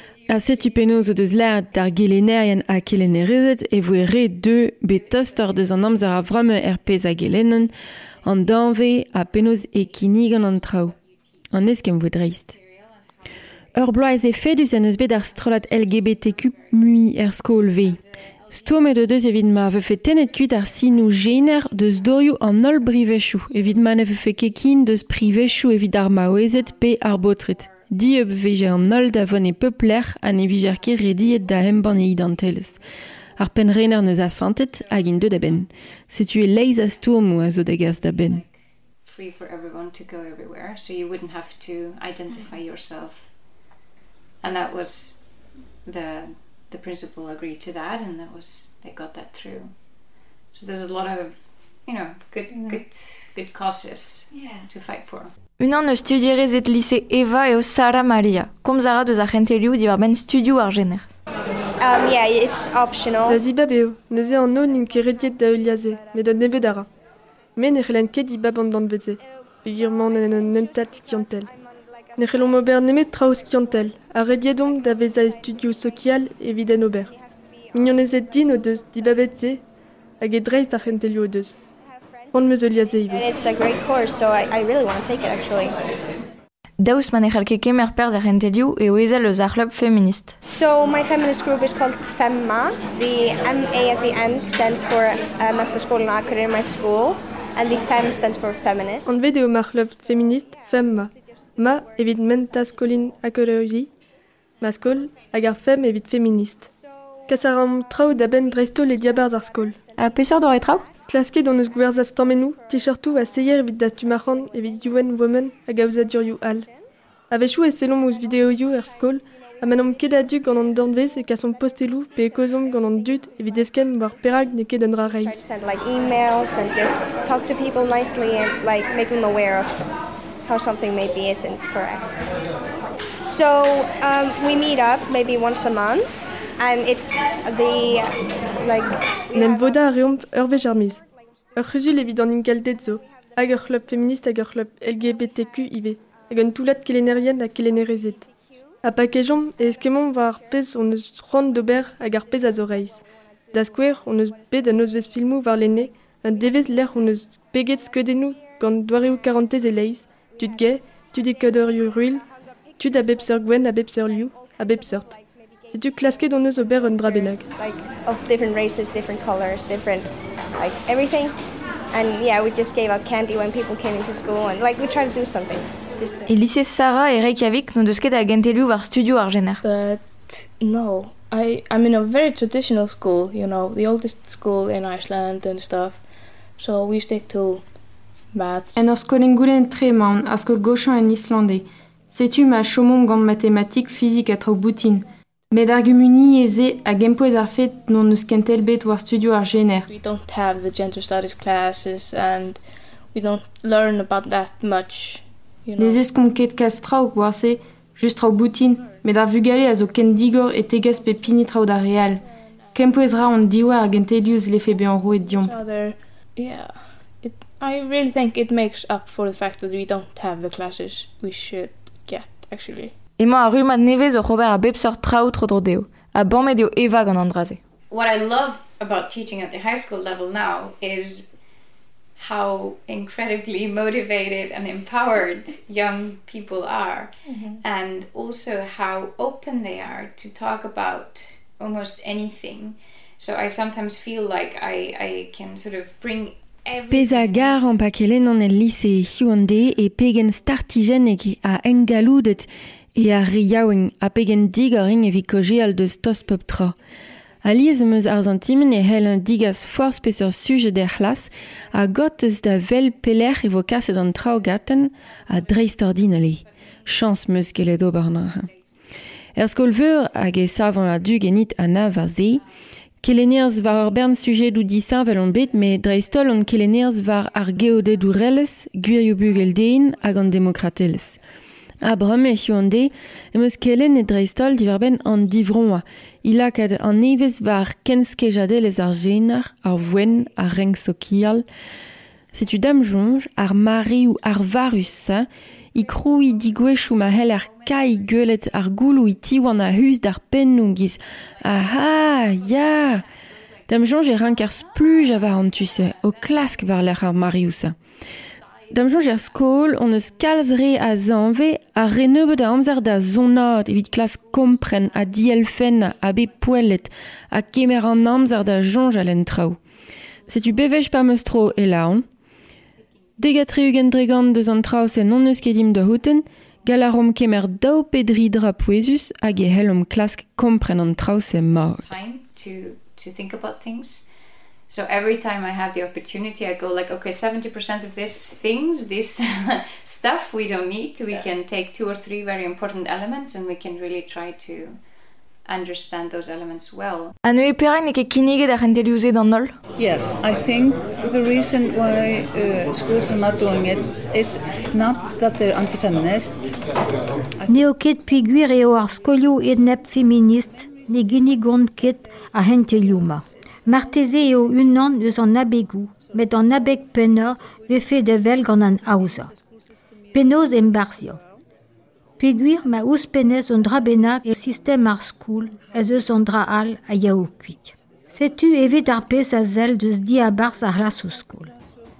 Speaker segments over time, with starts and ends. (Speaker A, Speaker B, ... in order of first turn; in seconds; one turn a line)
Speaker A: 0.3-7.7
Speaker A: 8.2-10.9
Speaker A: 11.5-12.6
Speaker A: 13.7-32.8
Speaker A: 33.4-38.4
Speaker B: 39.0-43.3
Speaker B: 44.4-45.2
Speaker B: 45.8-49.7
Speaker B: 50.5-55.3
Speaker C: 55.6-61.1
Speaker D: 61.8-63.4
Speaker E: 63.3-66.9
Speaker E: 67.5-71.5
Speaker E: 72.2-77.1
Speaker E: 77.7-79.6
Speaker E: 80.2-81.5
Speaker E: 82.3-83.2
Speaker D: 83.1-85.7
Speaker C: 86.8-90.3
Speaker D: 90.5-99.1
Speaker E: 99.0-103.9
Speaker E: 104.6-106.7
Speaker E: 107.3-109.7
Speaker C: 110.0-110.9
Speaker E: 111.1-116.7
Speaker E: 117.3-125.4
Speaker D: 125.2-129.8
Speaker D: 130.4-132.1
Speaker D: 133.3-139.8
Speaker E: 139.3-141.0
Speaker E: 141.5-148.2
Speaker E: 148.8-153.0
Speaker E: 153.5-162.2
Speaker E: 162.8-165.2
Speaker E: 165.7-167.4
Speaker D: 167.1-171.3
Speaker D: 171.9-176.2
Speaker C: 176.2-179.6
Speaker F: 179.6-186.0
Speaker F: 186.6-187.6
Speaker F: 188.3-188.9
Speaker G: 188.8-199.9
Speaker F: 199.9-202.6
Speaker F: 203.1-206.1
Speaker G: 205.8-215.5
Speaker F: 215.3-222.9
Speaker C: 223.2-227.6
Speaker B: 227.9-231.3
Speaker B: 232.2-247.8
Speaker F: 237.3-237.5
Speaker A: 246.9-256.7
Speaker A: 257.4-268.5
Speaker A: 269.3-272.4
Speaker A: 273.0-281.2
Speaker A: 281.8-291.4
Speaker A: 292.3-303.0
Speaker A: 303.7-307.8
Speaker A: 308.7-319.6
Speaker A: 320.3-322.0
Speaker A: 323.2-331.9
Speaker B: 331.7-334.1
Speaker B: 334.7-344.8
Speaker B: 345.4-347.1
Speaker C: 347.2-349.6
Speaker H: 349.8-356.5
Speaker I: 357.5-369.3
Speaker I: 370.1-371.2
Speaker I: 372.2-381.5